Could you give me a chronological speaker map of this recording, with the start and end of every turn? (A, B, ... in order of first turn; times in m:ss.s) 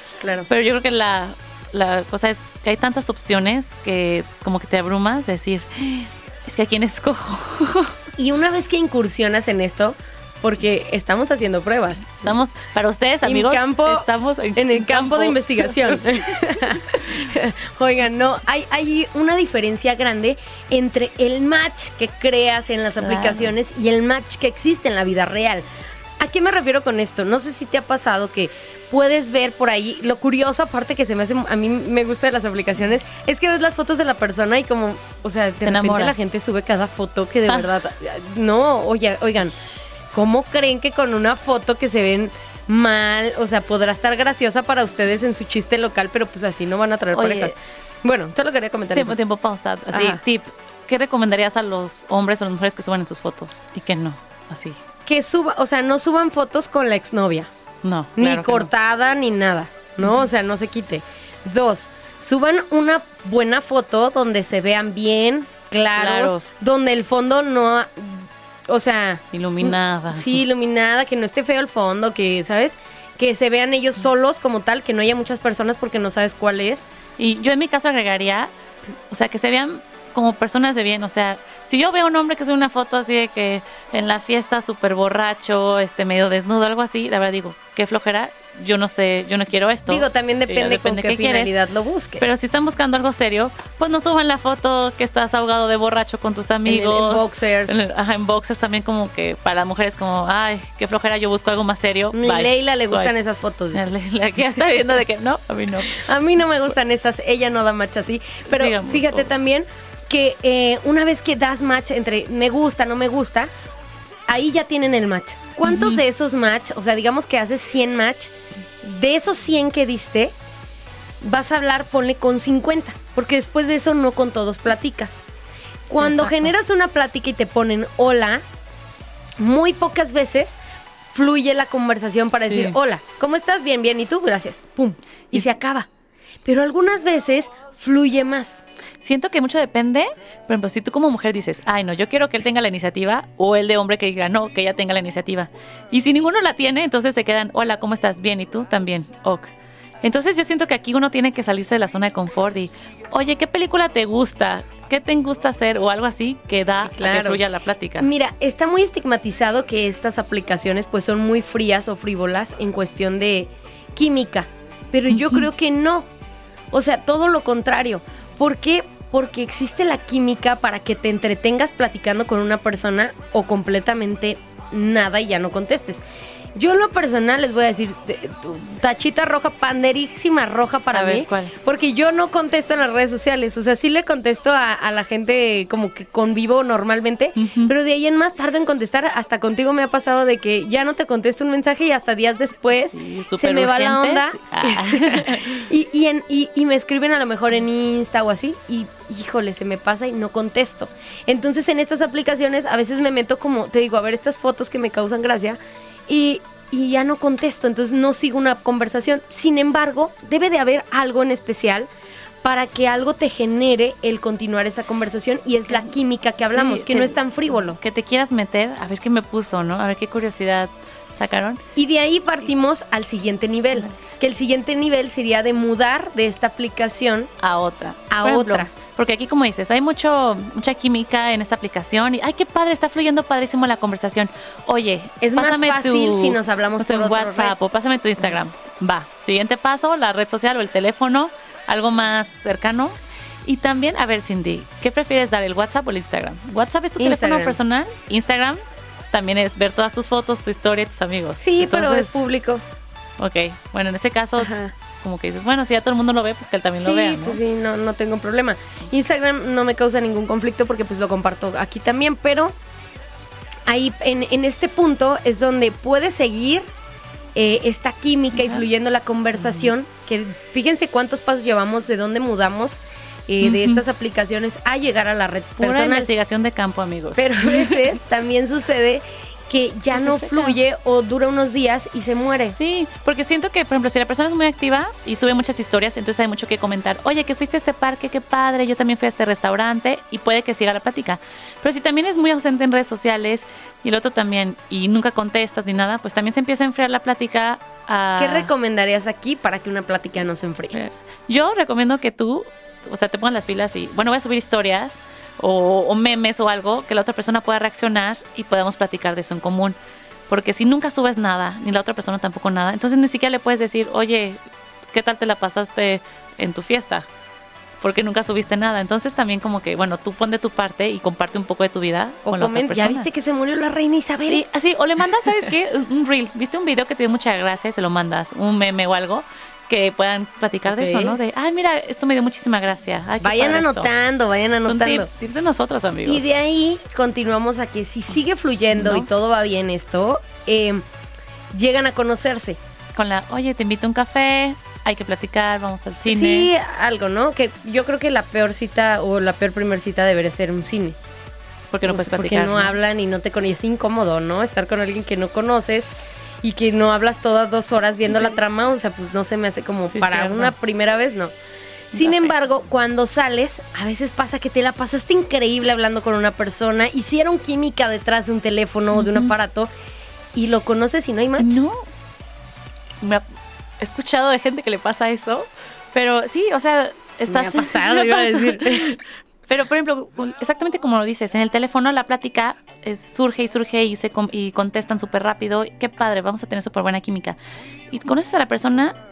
0:00.2-0:00.5 A
0:00.5-0:07.9 B
0:08.2-0:12.3 A
0:12.2-0:16.0 B
0:13.2-0:14.0 A
0:14.6-0:25.6 A
0:23.0-0:23.5 B
0:26.2-0:39.5 A
0:35.6-0:36.2 B
0:40.1-0:49.2 A
0:47.1-0:47.5 B
0:48.9-0:54.8 B
0:49.9-0:50.2 A
0:55.1-0:57.5 A
0:57.8-0:58.7 B
0:58.2-1:16.9 A
1:00.0-1:00.3 B
1:06.0-1:06.5 B
1:09.3-1:10.4 B
1:17.2-1:18.5 B
1:19.1-1:31.5 B
1:29.9-1:32.2 A
1:32.2-1:43.1 B
1:36.6-1:37.7 A
1:42.1-1:43.8 A
1:43.7-1:46.0 B
1:46.0-1:53.5 A
1:48.5-1:49.3 B
1:54.3-1:58.3 A
1:55.6-1:56.0 B
1:58.8-2:00.3 A
2:01.2-2:05.2 A
2:05.9-2:08.4 A
2:06.0-2:06.5 B
2:09.4-2:10.6 A
2:11.1-2:15.9 A
2:12.5-2:12.8 B
2:16.4-2:18.6 A
2:19.0-2:29.5 B
2:30.0-2:38.1 B
2:36.8-2:37.4 A
2:38.0-2:46.1 A
2:45.1-2:45.5 B
2:46.7-2:56.0 A
2:56.6-3:31.9 A
3:00.9-3:01.5 B
3:07.4-3:07.7 B
3:12.8-3:15.7 B
3:32.4-3:37.8 A
3:36.5-3:41.6 B
3:41.8-3:47.3 A
3:47.4-4:12.2 B
3:48.1-3:48.7 A
3:55.2-3:57.5 A
4:07.0-4:07.6 A
4:11.4-4:12.6 A
4:13.2-4:17.4 B
4:14.4-4:14.7 A
4:16.8-4:22.6 A
4:23.7-4:26.7 A
4:27.4-4:36.1 A
4:28.4-4:28.6 B
4:29.4-4:29.7 B
4:33.4-4:33.8 B
4:35.6-4:37.8 B
4:37.2-4:42.6 A
4:39.9-4:40.6 B
4:42.5-4:58.5 B
4:58.2-5:00.8 A
5:00.7-5:09.8 B
5:10.3-5:14.4 B
5:14.9-5:17.1 B
5:17.8-5:23.1 B
5:22.2-5:24.4 A
5:24.2-5:33.9 B
5:30.7-5:31.2 A
5:33.2-5:35.1 A
5:34.6-5:36.2 B
5:36.1-5:40.8 A
5:38.7-5:39.1 B
5:41.5-5:42.6 A
5:43.0-5:46.5 B
5:46.1-5:51.0 A
5:51.7-5:52.7 B
5:51.8-5:55.9 A
5:56.4-6:01.3 A
5:58.1-5:58.4 B
5:59.9-6:00.5 B
6:01.9-6:09.7 A
6:01.9-6:02.3 B
6:08.9-6:09.3 B
6:10.4-6:11.6 A
6:11.4-6:11.8 B
6:13.8-6:27.4 B
6:17.3-6:19.0 A
6:27.9-6:29.0 B